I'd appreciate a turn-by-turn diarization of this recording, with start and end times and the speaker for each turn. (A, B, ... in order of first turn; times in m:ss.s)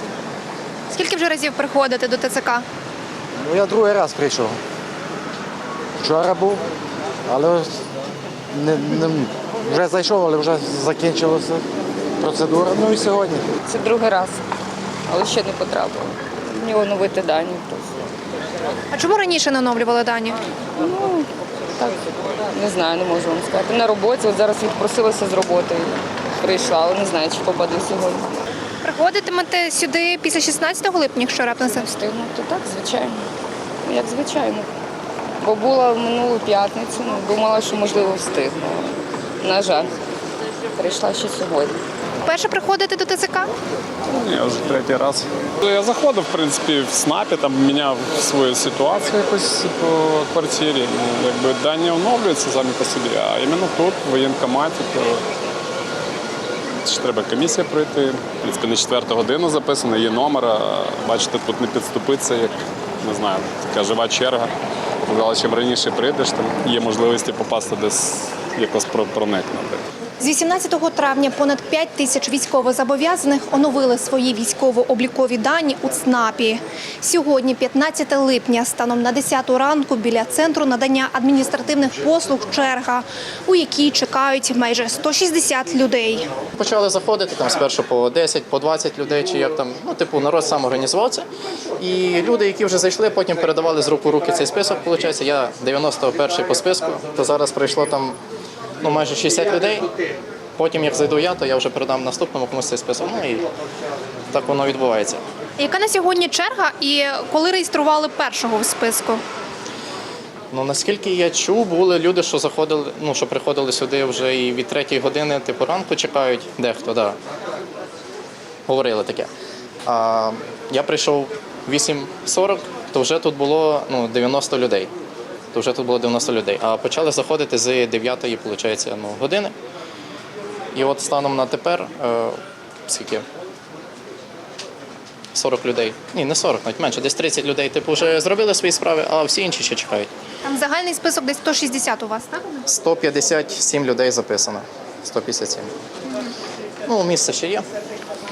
0:00.9-0:02.6 A
0:03.4-0:04.5 B
0:06.0-0:06.6 B
0:07.3-0:07.6 B
0:08.5-0:11.6 B
0:12.2-0:13.4 B
0:13.7-0:14.3 C
0:15.1-0:17.8 C
0:18.9-0:20.4 A
0:20.8-0:21.2 C
0:22.5-0:28.3 C
0:28.8-0:31.9 A
0:31.9-0:33.1 C
0:33.8-0:34.6 C
0:35.4-0:39.8 C
0:40.8-0:41.7 C
0:42.2-0:43.5 A
0:44.1-0:55.2 D
0:56.8-1:04.5 D
1:05.0-1:09.8 D
1:10.2-1:26.3 A
1:26.6-1:31.2 E
1:31.8-1:38.2 E
1:38.8-1:39.9 E
1:40.6-1:43.4 E
1:44.3-1:45.2 E
1:45.6-1:49.2 A
1:50.5-1:57.2 E
1:58.7-1:59.3 E
1:59.9-2:04.9 E
2:05.5-2:09.5 E
2:10.7-2:13.2 E
2:15.3-2:20.1 E
2:20.4-2:22.6 A
2:22.7-2:25.7 E
2:26.9-2:27.6 E